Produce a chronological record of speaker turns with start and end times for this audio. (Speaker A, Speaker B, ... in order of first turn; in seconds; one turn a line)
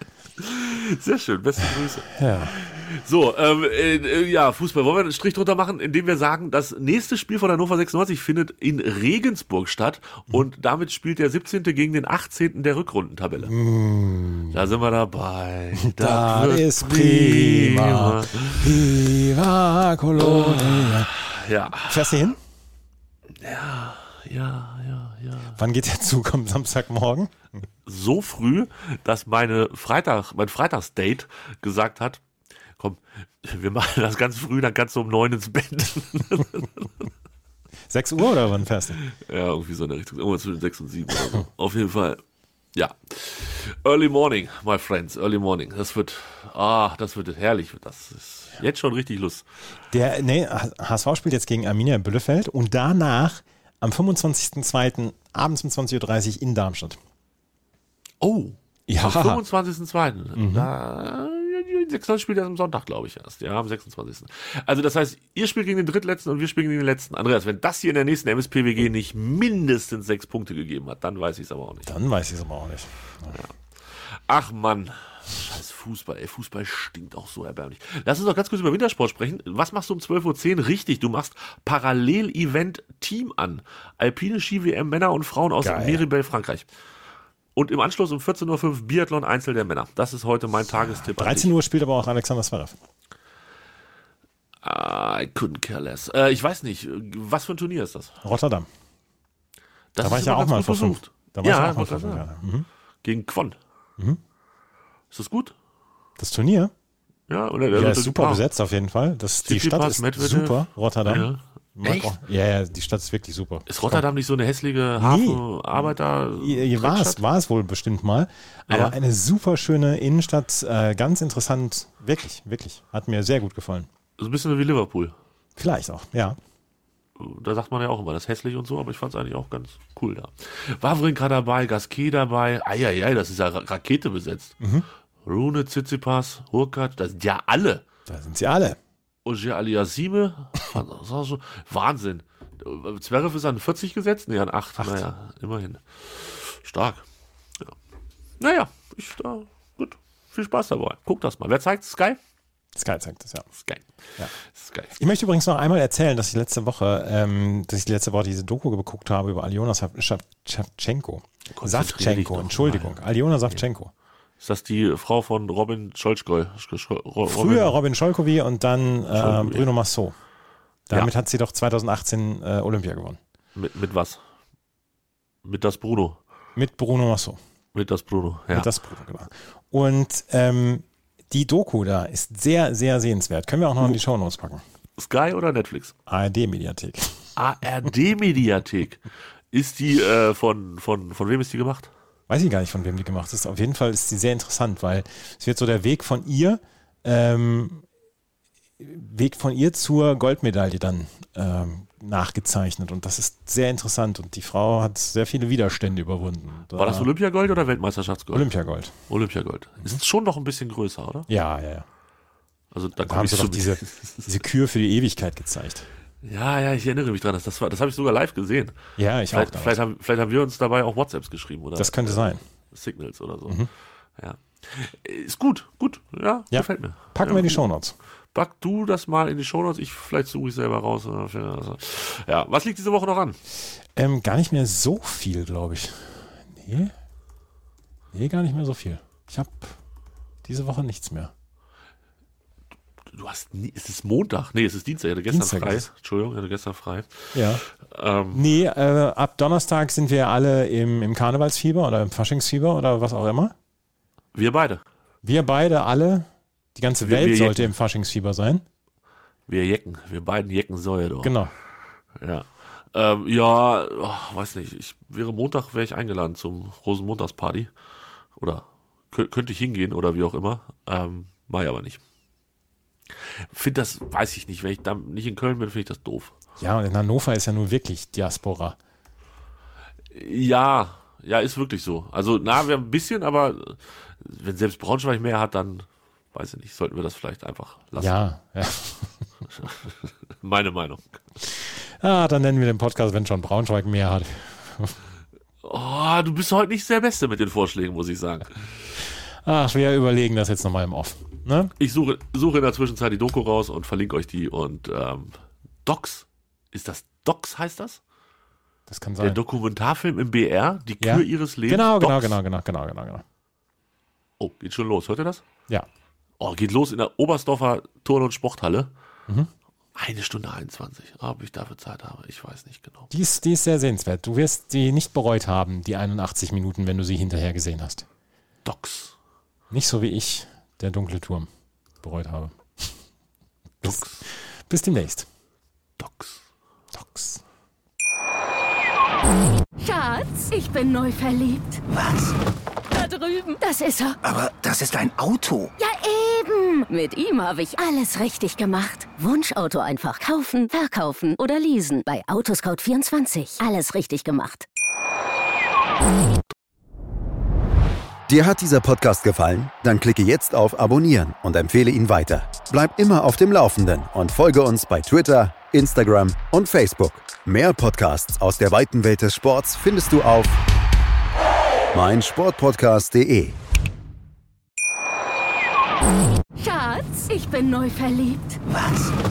Speaker A: 0.4-13.5
Speaker B: 2.1-2.5
Speaker B: 13.4-14.7
Speaker A: 14.5-18.9
Speaker B: 15.7-21.1
Speaker A: 20.1-22.3
Speaker B: 21.8-22.4
Speaker A: 23.4-25.6
Speaker B: 25.6-27.3
Speaker A: 27.9-32.2
Speaker A: 32.8-37.0
Speaker B: 37.9-39.0
Speaker A: 39.0-42.2
Speaker A: 42.7-49.5
Speaker B: 49.9-57.0
Speaker A: 58.2-71.9
Speaker B: 58.9-59.4
Speaker B: 60.4-60.7
Speaker B: 71.8-73.4
Speaker A: 74.1-86.7
Speaker B: 85.6-86.0
Speaker A: 87.5-91.5
Speaker B: 90.7-92.8
Speaker A: 94.6-98.1
Speaker B: 98.2-98.7
Speaker A: 99.9-102.3
Speaker B: 100.0-102.7
Speaker A: 103.0-103.6
Speaker A: 105.1-105.5
Speaker B: 106.2-106.7
Speaker A: 107.3-108.4
Speaker B: 107.7-114.0
Speaker A: 109.4-112.2
Speaker A: 113.7-117.2
Speaker B: 115.0-115.8
Speaker B: 116.4-123.9
Speaker A: 118.7-119.0
Speaker A: 124.2-125.1
Speaker B: 125.6-126.4
Speaker A: 127.2-134.6
Speaker B: 134.6-134.8
Speaker A: 135.2-137.8
Speaker B: 138.1-138.8
Speaker A: 139.2-147.0
Speaker A: 148.4-152.2
Speaker B: 152.8-153.5
Speaker A: 153.6-154.9
Speaker B: 154.9-163.9
Speaker A: 161.5-163.0
Speaker A: 164.4-167.8
Speaker B: 167.3-170.1
Speaker A: 169.1-169.7
Speaker B: 170.9-173.2
Speaker A: 173.6-174.2
Speaker A: 175.4-176.2
Speaker B: 176.6-177.4
Speaker A: 177.7-178.7
Speaker B: 178.5-184.6
Speaker A: 185.0-185.9
Speaker B: 186.1-187.3
Speaker A: 187.3-191.9
Speaker B: 192.3-197.8
Speaker B: 198.8-207.1
Speaker A: 206.8-208.5
Speaker B: 208.3-208.9
Speaker A: 209.1-211.3
Speaker B: 211.3-211.8
Speaker A: 212.7-214.3
Speaker B: 213.0-215.9
Speaker A: 216.2-218.8
Speaker B: 219.0-219.8
Speaker A: 219.3-223.6
Speaker B: 221.8-222.4
Speaker A: 224.2-227.6
Speaker B: 226.5-227.9
Speaker A: 228.3-233.4
Speaker B: 233.9-236.9
Speaker B: 238.1-239.8
Speaker B: 240.4-241.3
Speaker A: 243.1-248.4
Speaker B: 245.3-245.9
Speaker B: 247.3-247.6
Speaker B: 248.3-253.5
Speaker A: 254.3-254.8
Speaker B: 255.2-258.6
Speaker A: 257.0-257.7
Speaker A: 259.5-261.4
Speaker B: 261.2-261.5
Speaker A: 262.2-267.7
Speaker A: 268.4-272.0
Speaker A: 273.5-276.3
Speaker B: 276.6-278.8
Speaker A: 280.1-288.1
Speaker B: 288.0-289.1
Speaker A: 289.6-291.2
Speaker B: 291.4-295.0
Speaker A: 295.6-298.6
Speaker B: 299.4-301.7
Speaker A: 301.8-308.0
Speaker B: 308.9-309.4
Speaker A: 309.2-312.4
Speaker B: 311.0-313.2
Speaker A: 314.4-315.4
Speaker A: 316.4-318.9
Speaker A: 319.9-323.1
Speaker B: 323.1-328.1
Speaker A: 328.6-329.1
Speaker B: 329.7-331.5
Speaker B: 332.0-332.6
Speaker A: 333.8-334.2
Speaker B: 333.8-335.3
Speaker A: 336.0-336.4
Speaker B: 336.9-337.4
Speaker C: 339.8-341.8
Speaker D: 341.9-342.4
Speaker C: 342.9-344.2
Speaker D: 344.2-345.7
Speaker C: 345.8-354.7
Speaker E: 358.3-370.6
Speaker E: 371.9-373.6
Speaker C: 376.6-378.6
Speaker D: 378.7-379.1